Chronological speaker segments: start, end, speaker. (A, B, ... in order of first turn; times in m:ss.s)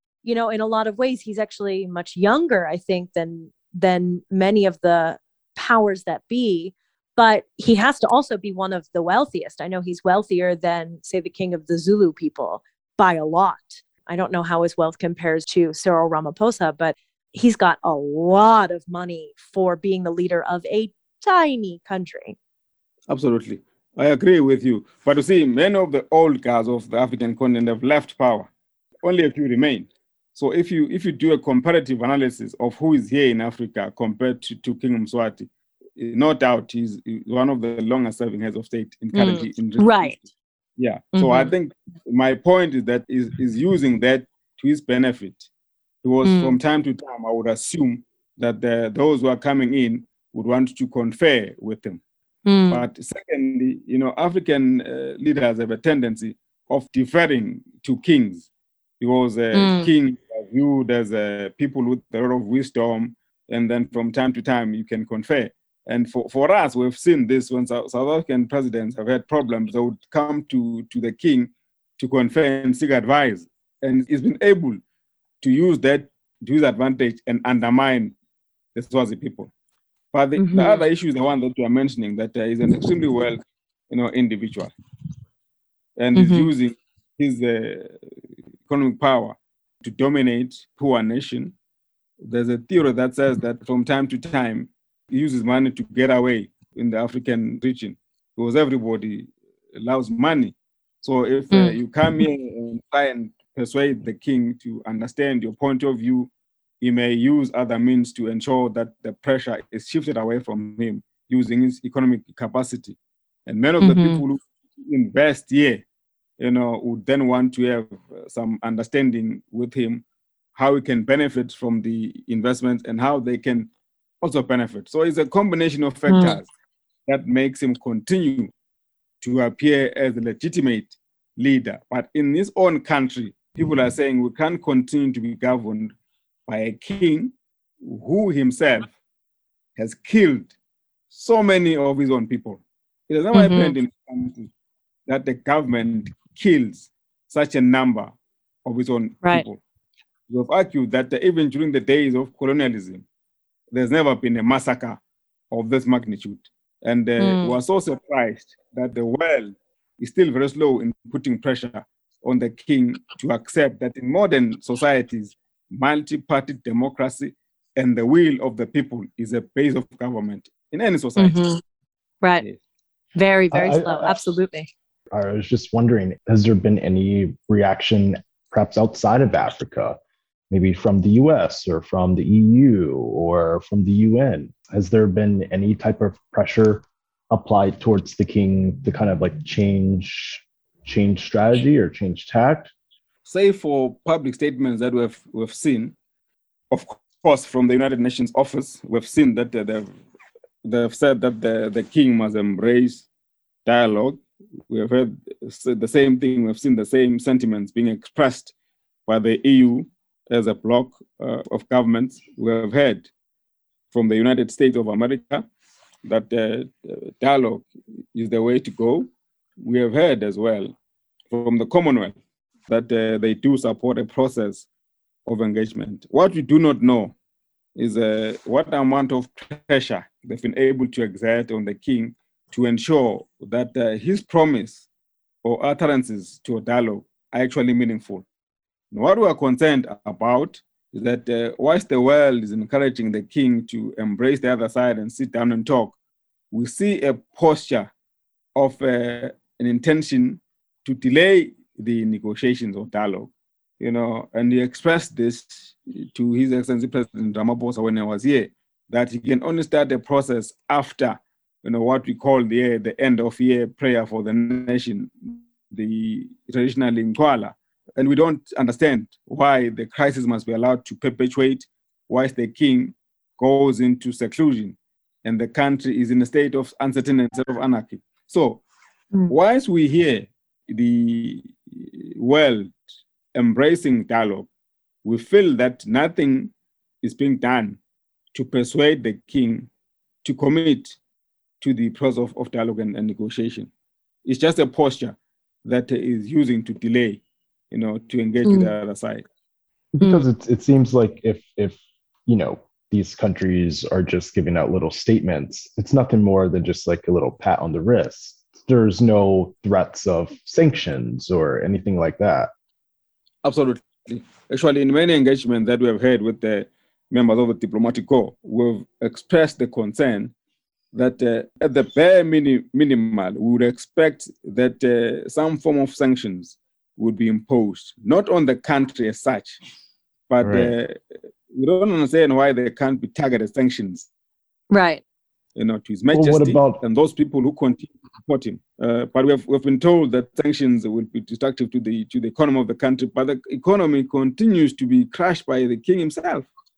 0:00.2-0:22.4 A
0:23.1-0:28.5 B
0:29.0-0:45.5 B
0:39.1-0:40.1 A
0:41.1-0:41.5 A
0:46.0-0:52.0 B
0:46.2-0:46.5 A
0:52.4-0:52.8 A
0:52.7-0:58.5 B
0:59.0-1:14.8 B
0:59.5-0:59.9 A
1:15.4-1:18.1 B
1:18.7-1:19.5 B
1:20.1-1:24.7 B
1:20.4-1:20.8 A
1:26.0-1:28.0 B
1:26.1-1:26.5 A
1:28.7-1:31.5 B
1:32.2-1:46.3 B
1:41.5-1:42.2 A
1:46.8-1:55.8 B
1:53.8-1:54.2 A
1:56.4-2:03.7 B
2:04.2-2:06.5 B
2:06.1-2:06.4 A
2:07.0-2:08.5 B
2:09.2-2:15.9 B
2:16.4-2:18.9 B
2:19.8-2:20.5 B
2:21.1-2:24.5 B
2:23.3-2:23.7 A
2:25.1-2:28.1 B
2:28.6-2:29.6 B
2:30.3-2:33.0 B
2:33.7-2:35.0 B
2:35.5-2:51.4 B
2:37.2-2:37.6 A
2:51.2-2:51.6 A
2:53.1-2:54.7 A
2:53.5-2:54.2 C
2:55.1-3:00.0 C
3:00.5-3:12.7 C
3:13.2-3:16.0 B
3:16.7-3:19.9 B
3:20.6-3:23.1 B
3:23.6-3:28.5 B
3:29.0-3:33.1 B
3:33.9-3:35.4 B
3:36.0-3:39.1 B
3:39.6-3:40.8 B
3:41.3-3:42.1 B
3:42.7-3:44.7 B
3:45.2-3:47.1 B
3:47.8-3:54.8 B
3:55.4-3:58.2 B
3:58.9-4:06.0 B
4:06.5-4:07.9 B
4:08.5-4:38.6 B
4:39.3-4:42.8 B
4:43.3-4:44.5 B
4:45.0-4:47.8 B
4:48.3-4:49.7 B
4:50.2-4:51.0 B
4:51.6-4:53.7 B
4:54.2-4:59.2 B
4:58.4-4:58.7 A
4:59.9-5:12.5 C
5:00.0-5:00.2 A
5:13.4-5:20.3 B
5:20.9-5:29.6 B
5:30.3-5:31.0 B
5:30.4-5:30.7 C
5:31.5-5:34.1 B
5:34.7-5:35.0 A
5:35.5-5:46.5 B
5:36.1-5:36.8 C